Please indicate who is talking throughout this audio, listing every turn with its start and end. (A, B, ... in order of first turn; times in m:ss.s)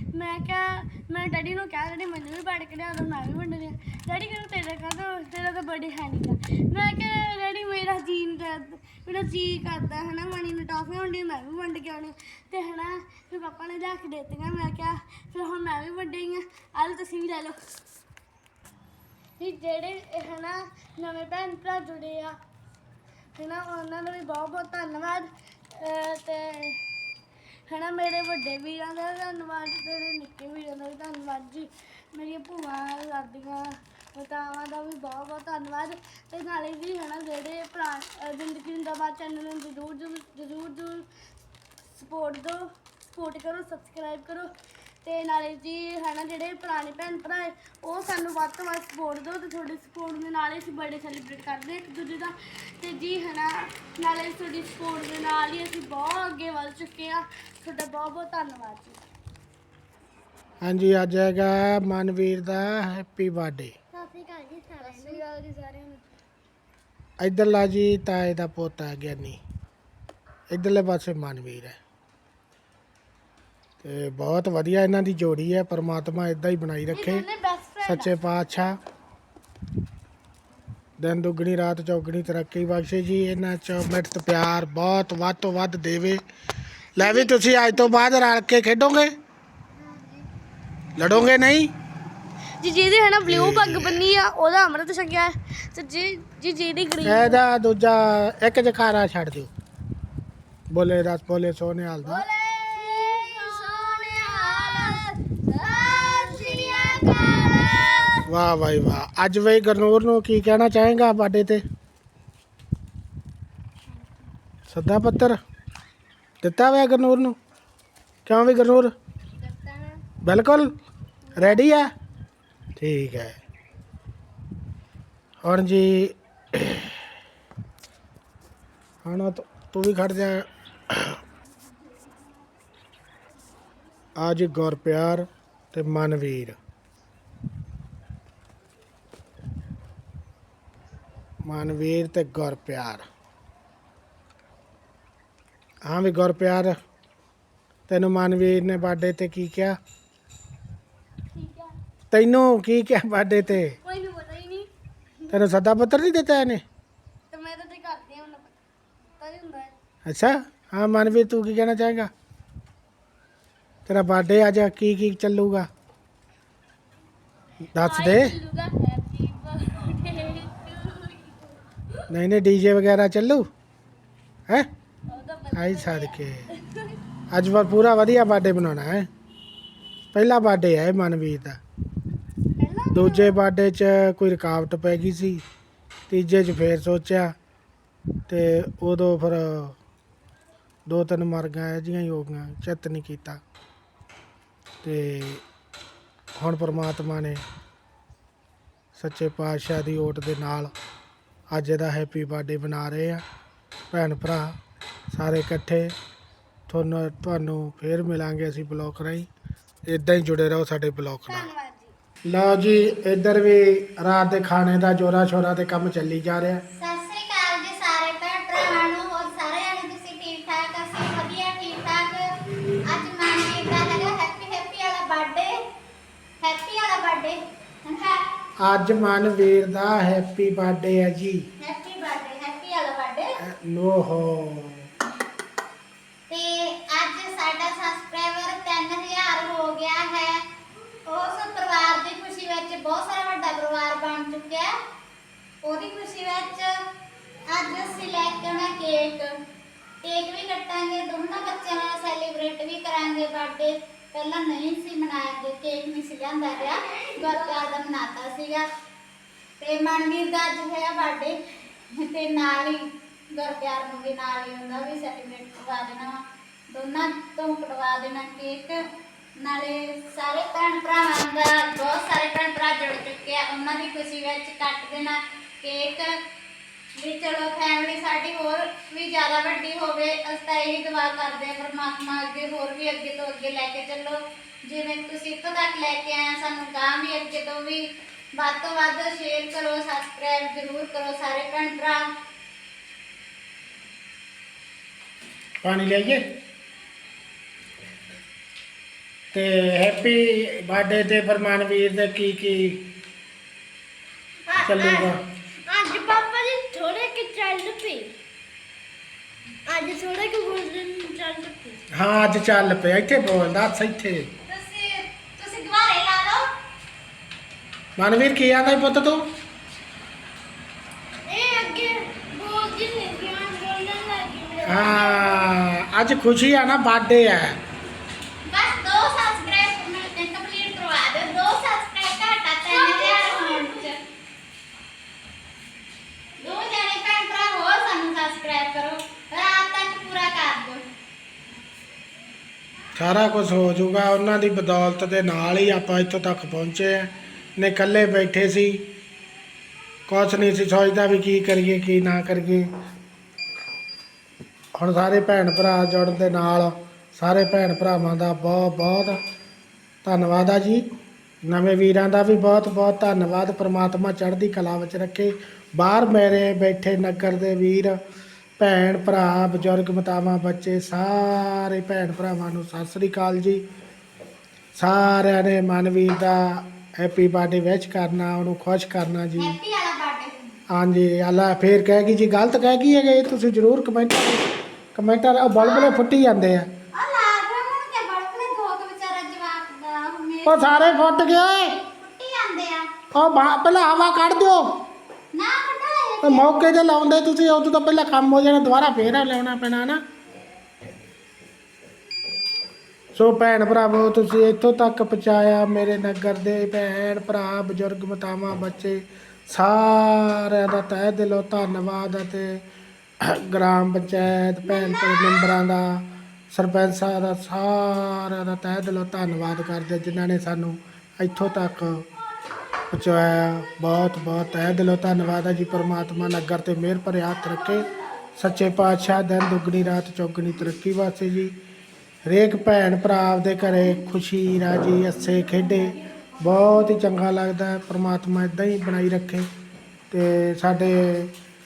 0:00.1-0:17.6 A
0:19.4-0:22.4 A
0:23.4-0:26.8 A
0:27.7-0:41.1 A
0:41.9-0:44.5 A
0:45.0-0:59.0 A
1:00.6-1:03.7 B
1:03.9-1:06.0 A
1:07.2-1:09.4 B
1:10.5-1:11.8 B
1:13.8-1:17.2 B
1:16.9-1:18.1 A
1:17.8-1:18.8 B
1:21.0-1:26.2 B
1:27.0-1:29.1 B
1:27.0-1:27.3 A
1:31.0-1:31.7 B
1:32.6-1:37.4 A
1:33.2-1:34.0 B
1:37.0-1:39.5 B
1:40.7-1:42.2 B
1:42.0-1:48.3 A
1:45.7-1:47.3 C
1:48.2-1:51.6 B
1:54.7-1:55.4 B
1:56.4-1:57.4 B
1:58.2-1:58.9 B
1:59.4-2:00.0 A
2:00.2-2:00.7 B
2:01.3-2:01.6 A
2:01.3-2:01.9 B
2:02.8-2:03.4 B
2:05.4-2:06.9 B
2:09.0-2:11.2 B
2:14.2-2:16.6 B
2:21.4-2:23.0 B
2:25.8-2:26.7 B
2:27.9-2:29.8 B
2:31.3-2:31.7 A
2:32.1-2:33.8 B
2:33.8-2:34.7 A
2:35.3-2:36.6 B
2:37.3-2:38.6 A
2:39.2-2:39.7 A
2:40.0-2:42.1 B
2:43.8-2:45.7 B
2:47.7-2:48.3 B
2:47.8-2:51.5 A
2:52.1-2:53.4 B
2:55.1-2:57.0 A
2:55.5-2:56.4 B
2:57.3-2:59.1 B
3:00.1-3:01.6 B
3:02.6-3:03.4 A
3:02.9-3:05.4 B
3:06.1-3:07.3 B
3:08.3-3:09.8 B
3:10.9-3:13.4 B
3:14.8-3:15.4 B
3:16.4-3:17.4 B
3:18.9-3:20.7 B
3:21.5-3:23.2 B
3:23.9-3:24.6 B
3:25.1-3:25.9 B
3:26.7-3:29.3 B
3:29.8-3:31.5 B
3:31.3-3:31.9 A
3:32.3-3:36.6 B
3:36.8-3:42.3 C
3:42.9-3:45.5 C
3:46.4-3:48.2 C
3:48.6-3:51.4 B
3:51.6-3:53.3 C
3:53.4-3:54.9 B
3:56.3-4:00.4 C
4:01.0-4:04.7 C
4:05.6-4:06.7 C
4:07.5-4:09.3 C
4:10.0-4:18.6 C
4:19.6-4:21.3 C
4:22.0-4:22.8 C
4:23.4-4:26.2 C
4:26.7-4:28.8 C
4:29.4-4:36.1 C
4:37.0-4:47.8 C
4:48.4-4:52.1 C
4:55.6-4:56.2 B
4:59.3-5:02.8 B
5:04.5-5:05.1 A
5:04.6-5:05.2 B
5:05.6-5:08.1 A
5:09.7-5:11.8 A
5:11.9-5:14.3 B
5:14.5-5:16.4 C
5:18.0-5:19.2 B
5:21.3-5:25.5 A
5:24.6-5:27.6 B
5:28.5-5:34.0 C
5:32.7-5:33.9 A
5:36.4-5:40.8 C
5:43.0-5:48.8 B
5:50.1-5:52.6 B
5:54.7-5:59.2 B
6:00.0-6:00.8 B
6:01.4-6:07.9 B
6:08.6-6:13.6 B
6:14.8-6:19.5 B
6:19.4-6:20.5 C
6:20.7-6:26.7 B
6:25.5-6:26.0 C
6:26.9-6:31.0 C
6:30.4-6:31.7 B
6:31.8-6:32.9 C
6:33.1-6:34.6 B
6:35.3-6:36.6 C
6:36.2-6:40.0 B
6:43.1-6:52.6 B
6:53.2-7:02.0 B
7:02.9-7:11.5 B
7:12.2-7:19.5 B
7:20.1-7:21.3 B